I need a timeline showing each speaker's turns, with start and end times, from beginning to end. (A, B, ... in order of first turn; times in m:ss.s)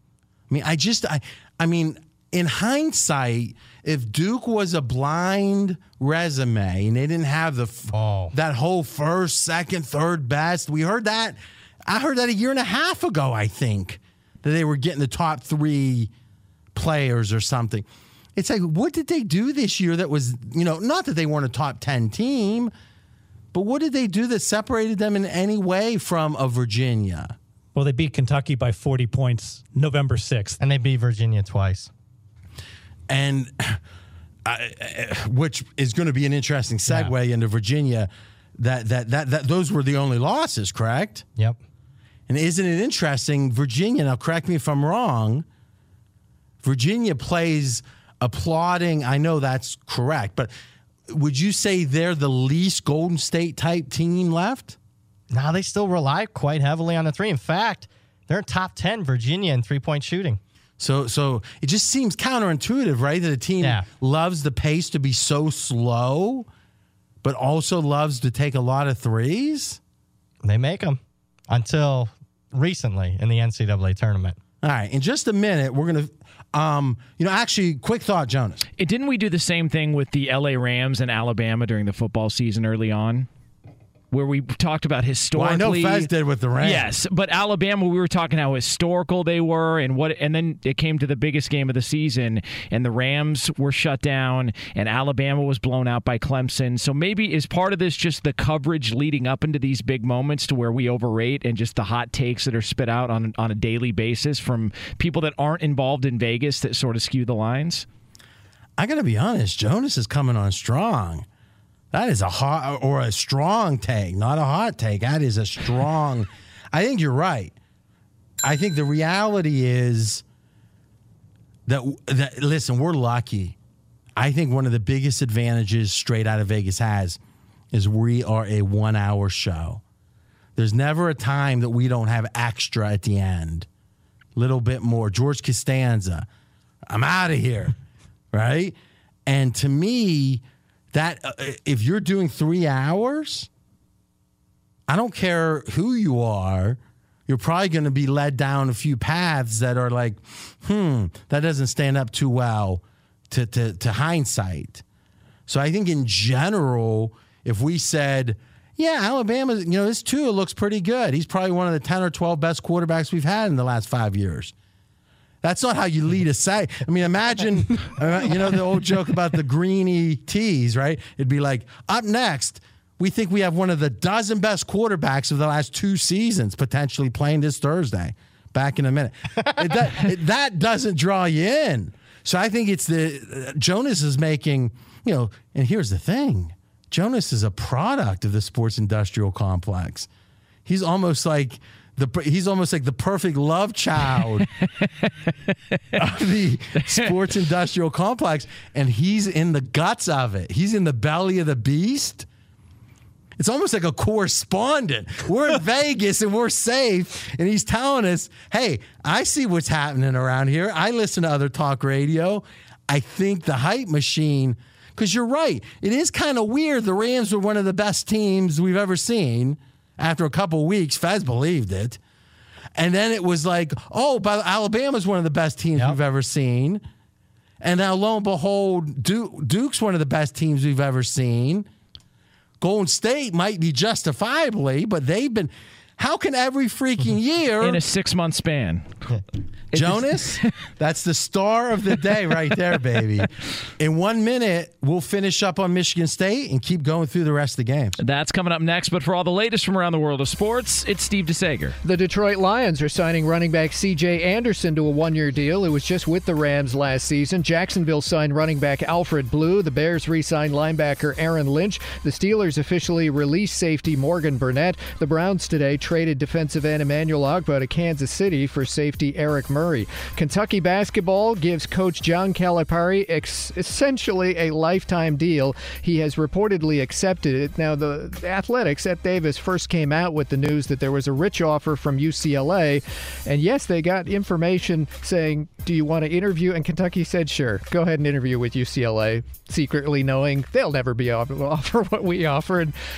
0:00.5-0:16.1 A
0:07.9-0:08.3 B
0:16.8-0:22.7 A
0:23.5-0:27.4 A
0:27.8-0:30.6 C
0:30.6-0:31.9 B
0:33.1-0:33.8 A
0:34.4-0:41.3 A
0:36.9-0:37.1 B
0:42.3-0:45.5 A
0:46.6-0:50.5 A
0:51.1-0:54.8 A
0:55.3-1:00.4 B
1:00.8-1:06.5 A
1:03.6-1:03.9 B
1:07.2-1:09.8 A
1:10.4-1:11.0 B
1:11.5-1:14.4 B
1:14.6-1:18.6 A
1:18.8-1:23.3 D
1:24.1-1:47.9 D
1:25.3-1:26.9 A
1:48.8-1:51.3 A
1:51.9-1:57.6 A
1:58.4-2:00.2 A
2:01.7-2:03.6 A
2:04.2-2:07.2 A
2:07.7-2:09.8 A
2:10.6-2:13.7 A
2:14.4-2:16.3 A
2:16.9-2:17.8 A
2:18.3-2:23.5 A
2:24.9-2:34.8 A
2:35.5-2:44.5 A
2:45.4-3:10.1 A
3:10.6-3:14.4 A
3:14.6-3:15.8 D
3:15.9-3:22.3 A
3:23.4-3:42.0 A
3:42.8-3:46.8 A
3:47.6-3:51.7 A
3:52.6-3:57.8 A
3:57.6-3:58.9 D
3:59.7-4:00.4 D
3:59.7-4:08.0 A
4:08.0-4:11.8 D
4:11.8-4:52.8 E